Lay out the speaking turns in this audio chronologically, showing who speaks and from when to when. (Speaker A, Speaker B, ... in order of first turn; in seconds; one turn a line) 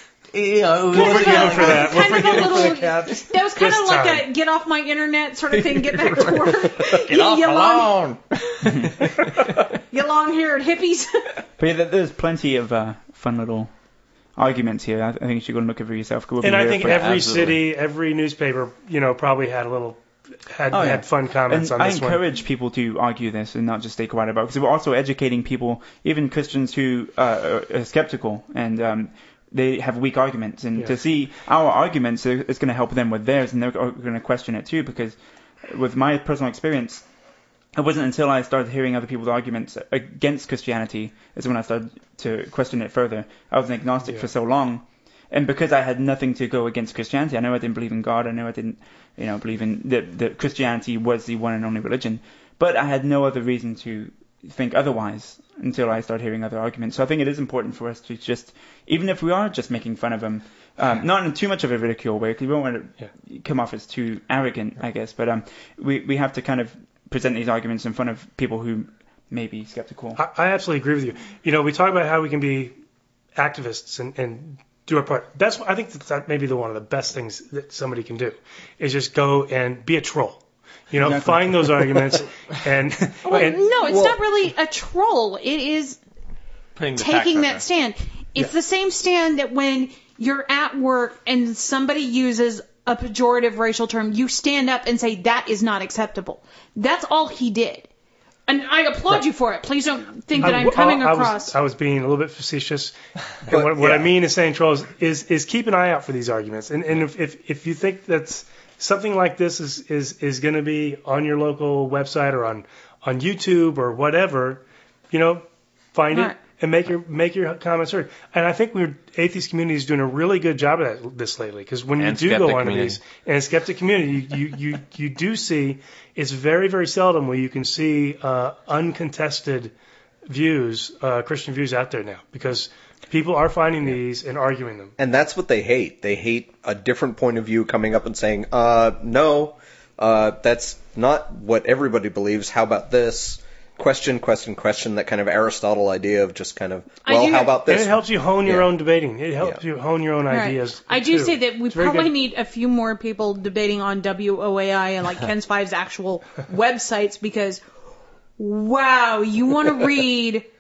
Speaker A: 0.3-2.7
Speaker B: 0.9-4.3
Speaker C: 0.9-7.9
Speaker A: 5.5-9.6
Speaker D: 8.6-9.0
Speaker C: 9.9-11.4
Speaker D: 11.6-13.7
Speaker D: 14.4-17.2
Speaker B: 16.4-22.2
Speaker A: 16.9-17.6
Speaker D: 20.7-35.2
Speaker D: 35.7-37.0
Speaker D: 37.8-70.2
Speaker B: 44.0-44.3
Speaker B: 70.2-72.7
Speaker B: 73.4-83.6
Speaker D: 81.0-82.2
Speaker C: 83.2-86.0
Speaker E: 83.9-84.2
Speaker A: 86.8-87.7
Speaker C: 87.0-97.9
Speaker C: 98.5-101.5
Speaker B: 100.3-129.7
Speaker E: 103.5-104.1
Speaker C: 116.1-116.4
Speaker A: 122.0-123.0
Speaker B: 130.3-134.9
Speaker E: 135.0-148.7
Speaker C: 147.1-147.6
Speaker B: 147.7-152.1
Speaker C: 150.3-157.6
Speaker C: 158.4-160.5